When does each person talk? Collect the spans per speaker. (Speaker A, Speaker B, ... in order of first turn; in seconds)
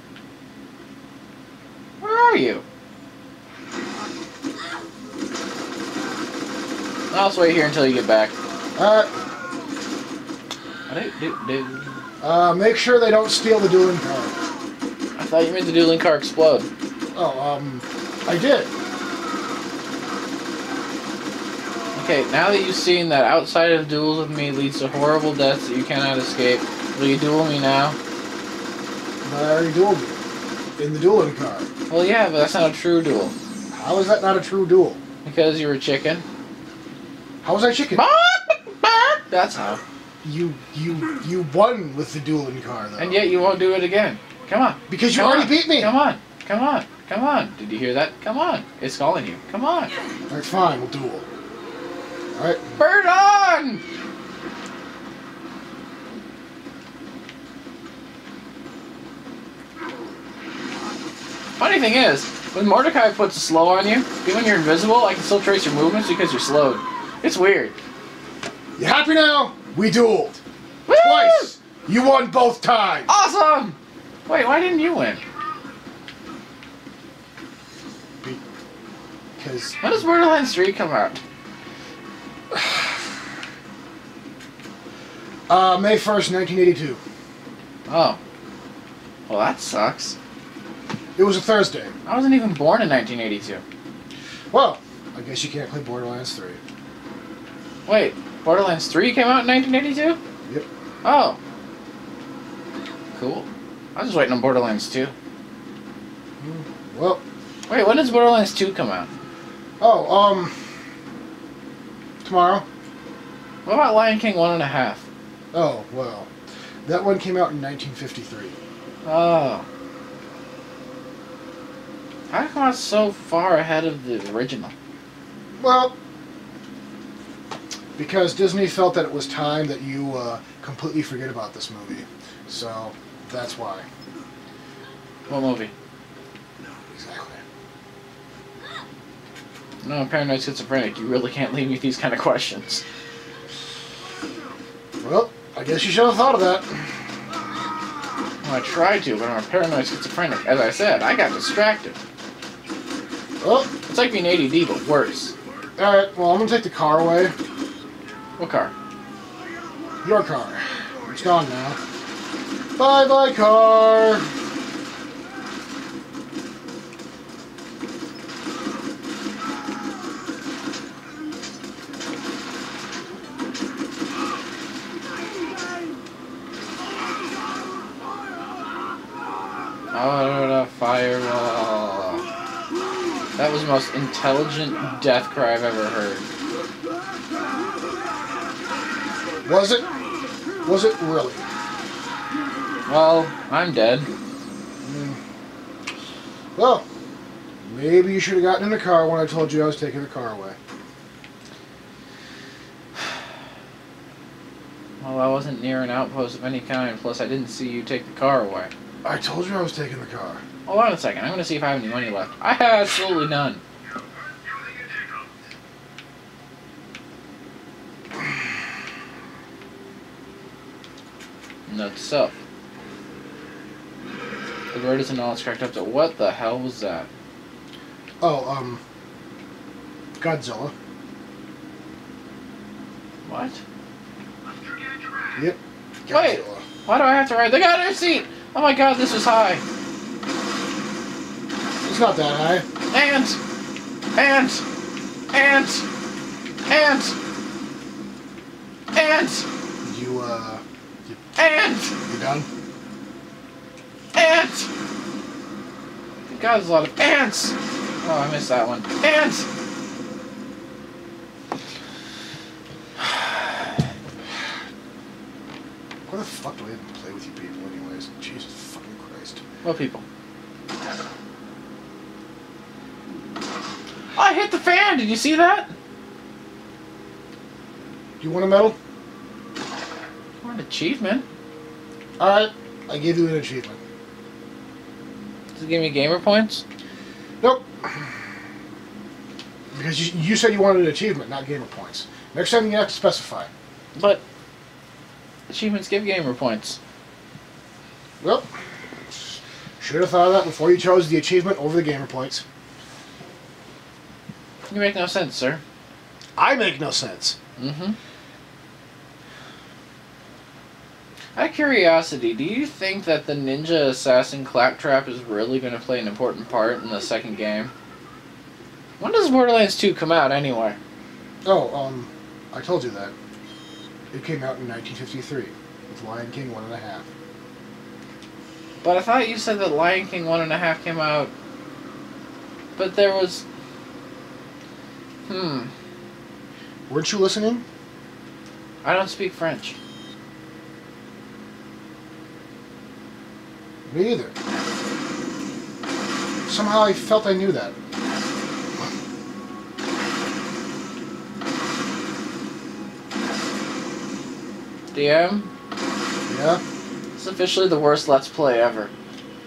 Speaker A: 2.0-2.6, 7.1-8.3, 10.9-12.0, 15.2-16.7, 21.9-28.0, 31.9-33.3, 35.2-36.2, 37.9-39.8, 43.0-49.9, 52.8-53.8, 61.6-67.7, 70.9-71.5, 73.1-75.2, 79.8-81.2, 87.9-88.2, 89.3-90.2, 92.0-93.6, 97.8-100.2, 101.0-101.4, 103.1-105.1, 107.7-109.1, 113.7-115.0, 119.0-119.7, 122.3-124.7, 135.3-135.7, 139.8-142.8, 148.4-152.0, 153.9-155.3, 158.4-158.7, 179.9-182.2, 183.3-186.2, 192.9-194.1, 205.0-208.7, 210.7-213.6, 221.7-222.3, 224.7-227.1, 233.2-233.6, 236.1-239.6, 242.9-243.4, 244.1-244.6, 245.3-245.8, 246.7-247.1, 248.9-249.4, 251.3-251.9, 254.1-254.7, 256.3-259.4, 269.6-270.0, 274.1-275.7, 280.4-281.2, 285.5-286.6, 293.9-294.2, 295.5-296.8, 304.7-305.6, 307.6-308.0, 311.4-317.7, 319.0-320.8, 328.8-331.3, 332.8-333.4, 335.3-335.7, 338.8-339.8, 354.9-355.5, 357.1-358.9
Speaker B: 8.8-9.1, 12.2-14.4, 17.1-18.7, 29.2-30.2, 30.8-31.7, 33.7-35.0, 37.4-38.0, 40.2-43.2, 44.9-45.9, 50.3-51.2, 52.3-52.6, 68.8-73.1, 79.4-79.8, 82.5-82.8, 85.5-87.0, 91.2-91.9, 94.5-96.6, 106.4-107.2, 109.8-110.5, 112.2-112.6, 115.5-116.3, 116.8-118.6, 125.5-126.0, 128.0-133.9, 136.9-137.4, 145.0-147.1, 153.4-153.7, 155.8-157.3, 160.0-161.8, 162.8-164.3, 189.4-189.9, 190.6-191.5, 194.8-195.2, 196.6-196.8, 197.6-200.6, 209.0-210.4, 228.2-228.8, 230.2-230.7, 235.3-236.6, 241.8-242.7, 249.8-251.2, 252.1-252.5, 266.1-269.4, 278.2-278.8, 282.2-283.8, 287.4-288.0, 289.7-293.5, 298.2-298.5, 299.8-302.4, 306.4-307.4, 321.4-323.1, 324.1-327.1, 336.9-337.6, 343.9-344.3, 346.4-347.7, 356.3-356.6